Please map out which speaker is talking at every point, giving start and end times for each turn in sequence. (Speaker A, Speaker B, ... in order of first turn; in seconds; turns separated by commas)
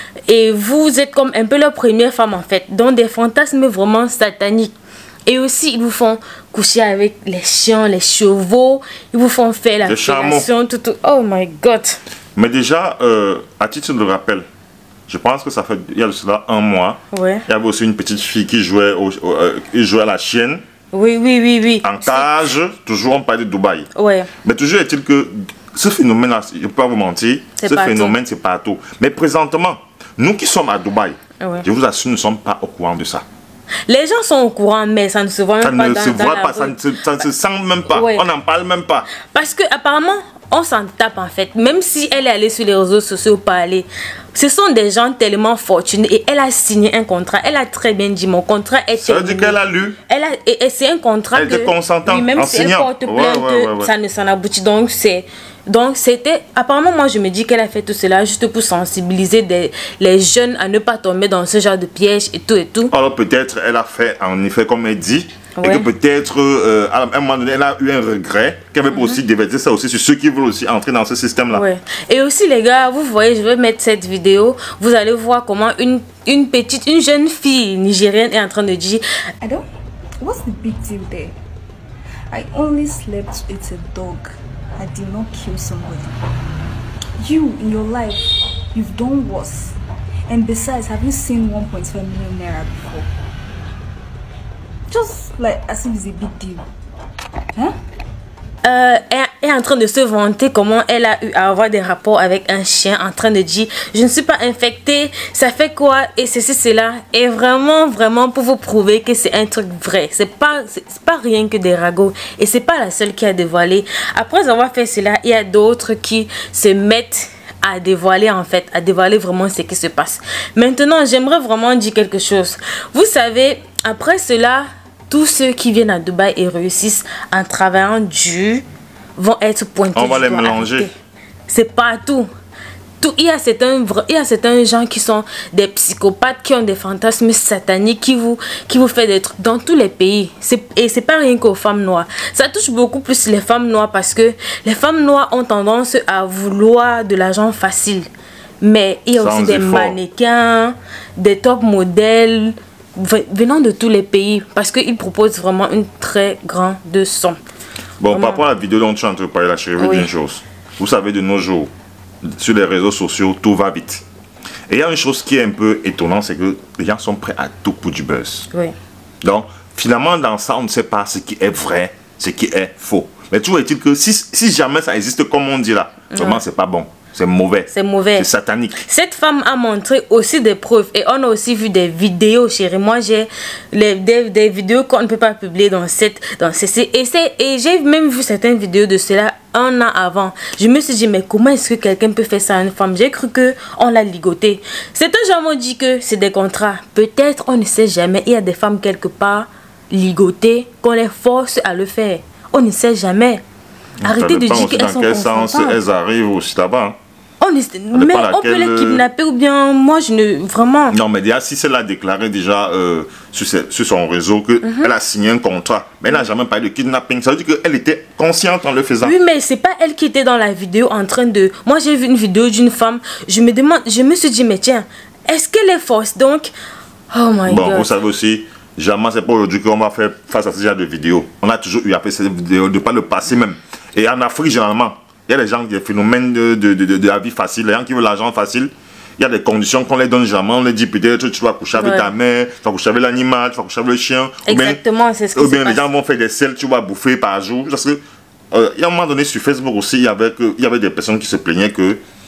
Speaker A: 0.3-4.7, Speaker A: 5.3-12.0, Speaker B: 9.8-10.5, Speaker B: 12.3-14.4, Speaker B: 15.1-20.6, Speaker A: 17.1-17.4, Speaker A: 20.9-22.4, Speaker B: 21.8-23.9, Speaker A: 23.9-24.3, Speaker B: 24.4-33.2, Speaker A: 27.6-28.1, Speaker A: 31.4-31.6, Speaker A: 33.9-36.8, Speaker B: 35.6-39.1, Speaker A: 37.9-38.2, Speaker A: 39.2-62.9, Speaker B: 49.0-50.0, Speaker B: 51.3-53.9, Speaker B: 62.9-71.6, Speaker A: 65.6-65.9, Speaker A: 68.9-69.2, Speaker A: 71.5-79.0, Speaker C: 79.4-79.7, Speaker C: 80.2-81.4, Speaker C: 82.3-86.2, Speaker C: 87.2-89.8, Speaker C: 90.3-93.1, Speaker C: 94.9-96.6, Speaker A: 98.6-128.6, Speaker A: 129.2-130.9, Speaker B: 129.9-130.9, Speaker A: 131.5-132.3, Speaker A: 133.0-148.1, Speaker A: 148.6-157.4, Speaker B: 149.1-150.0, Speaker B: 158.0-161.7, Speaker A: 158.1-158.4, Speaker A: 159.8-160.1, Speaker B: 162.2-164.0, Speaker B: 164.7-168.5, Speaker B: 169.2-178.8, Speaker A: 176.1-176.4, Speaker A: 177.7-178.3, Speaker A: 178.8-203.4, Speaker B: 204.0-207.0, Speaker A: 204.0-205.8, Speaker A: 207.4-211.0, Speaker B: 207.9-209.0, Speaker B: 210.9-219.2, Speaker A: 214.6-214.9, Speaker A: 219.0-226.5, Speaker A: 227.1-227.9, Speaker B: 227.4-244.8, Speaker A: 241.7-242.1, Speaker A: 244.4-245.8, Speaker B: 245.3-248.0, Speaker B: 248.5-252.0